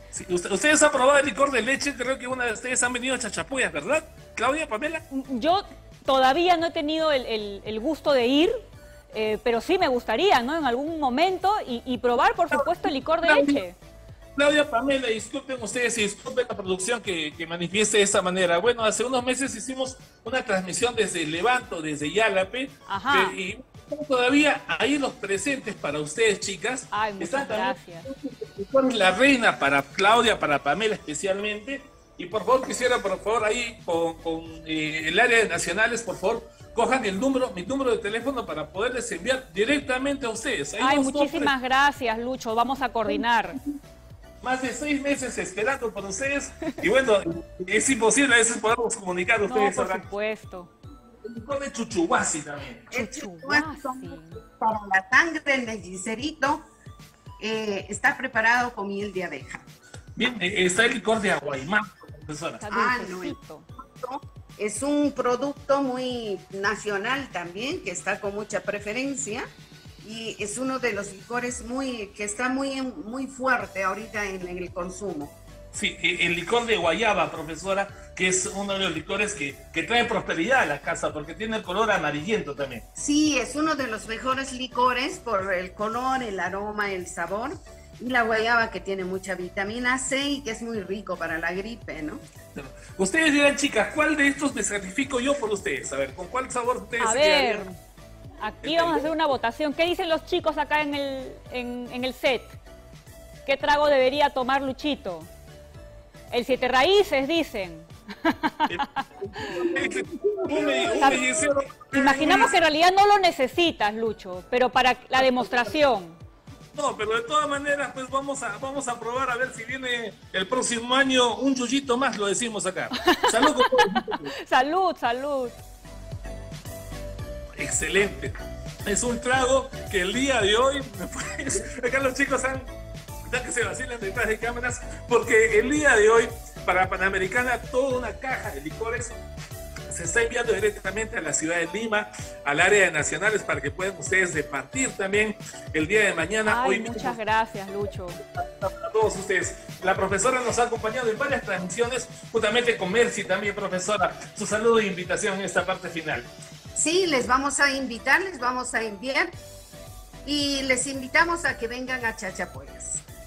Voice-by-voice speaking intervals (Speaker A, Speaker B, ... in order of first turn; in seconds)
Speaker A: 0.1-5.0, 13.2-13.6, 14.4-41.5, 44.4-50.1, 51.2-52.9, 60.2-62.6, 75.7-82.8, 92.5-97.7, 98.6-99.1, 108.7-112.5, 115.2-115.7, 116.8-124.3, 127.6-132.7, 133.3-139.1, 139.9-147.2, 148.3-156.3
Speaker B: 5.1-13.8, 22.9-23.4, 26.9-28.1, 40.8-43.6, 49.4-50.7, 52.9-54.4, 62.6-63.7, 97.0-97.7, 98.4-102.6, 103.5-105.3, 106.3-109.7, 110.8-116.2, 123.0-125.6, 146.4-148.2
Speaker C: 52.9-56.7, 57.4-59.7, 62.7-63.4, 64.0-69.5, 70.0-75.3, 83.0-92.2, 109.7-111.2, 156.8-159.3, 160.2-163.0